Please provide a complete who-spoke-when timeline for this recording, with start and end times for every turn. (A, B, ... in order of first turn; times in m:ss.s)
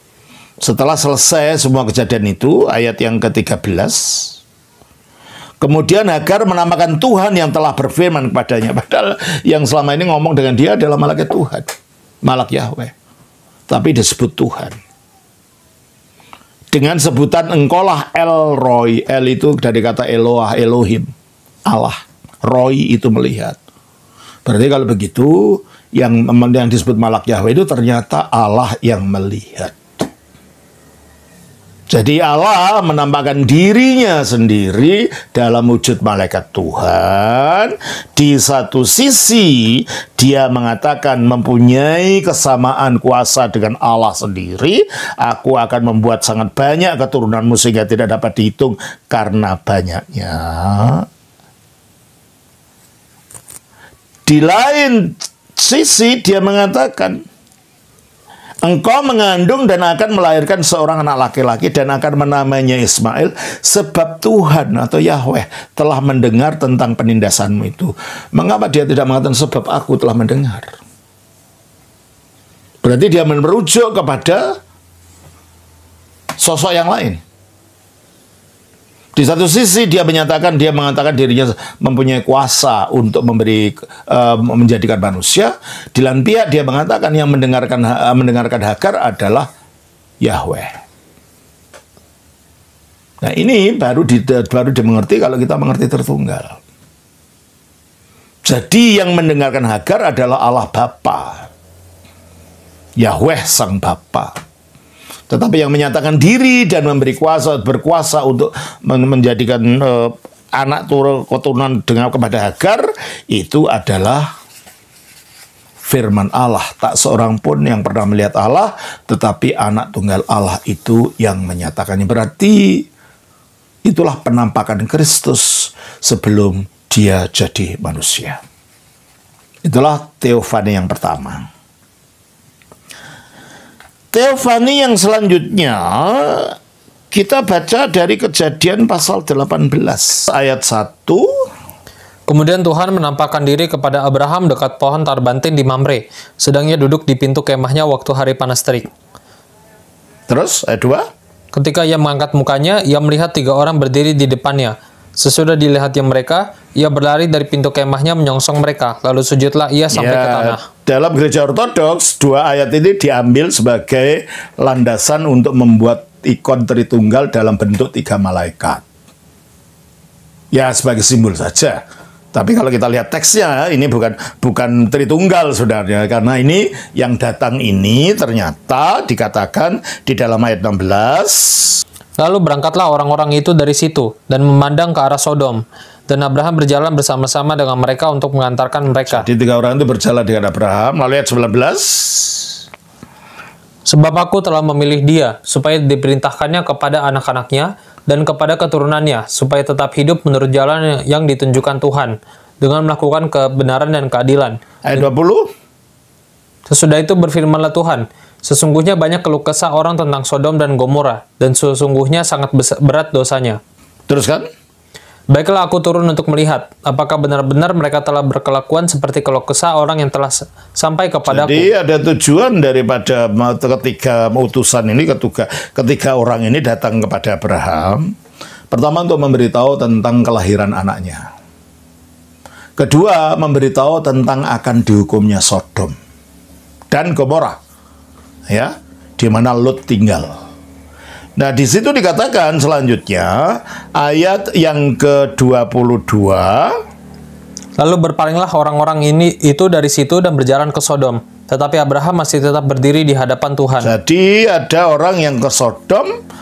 0:00.6-0:04.4 A
0:05.6-0:11.7 A
0:12.2-0:12.9 A
0:13.7-0:14.8 A
0:16.7-0:21.1 A
0:21.7-0:23.6 A
0:24.5-0:30.1 A
0:31.9-0:51.1 A
0:54.3-0:57.2 A
0:58.6-1:10.8 A
1:12.8-1:14.6 A
1:16.4-1:17.2 A
1:19.2-1:29.5 A
1:30.2-1:30.8 A
1:33.2-1:36.6 A
1:38.4-1:41.5 A
1:43.0-1:44.3 A
1:45.3-1:54.3 A
1:55.8-2:02.9 A
2:03.8-2:08.4 A
2:09.6-2:11.5 A
2:14.1-2:16.6 A
2:17.1-2:21.3 A
2:22.3-2:28.9 B
2:30.3-2:31.0 A
2:31.5-2:40.6 B
2:39.9-2:48.8 A
2:50.5-2:51.8 A
2:52.3-3:01.8 A
3:02.2-3:09.3 B
3:09.1-3:12.6 A
3:13.9-3:25.0 B
3:24.8-3:25.5 A
3:26.7-3:33.6 B
3:34.1-3:34.5 A
3:35.3-3:41.7 B
3:41.3-3:48.2 A
3:48.7-3:51.3 A
3:52.8-3:56.0 A
3:56.9-3:57.6 A
3:58.5-4:00.4 A
4:01.4-4:06.8 A
4:07.8-4:13.9 B
4:13.8-4:16.1 A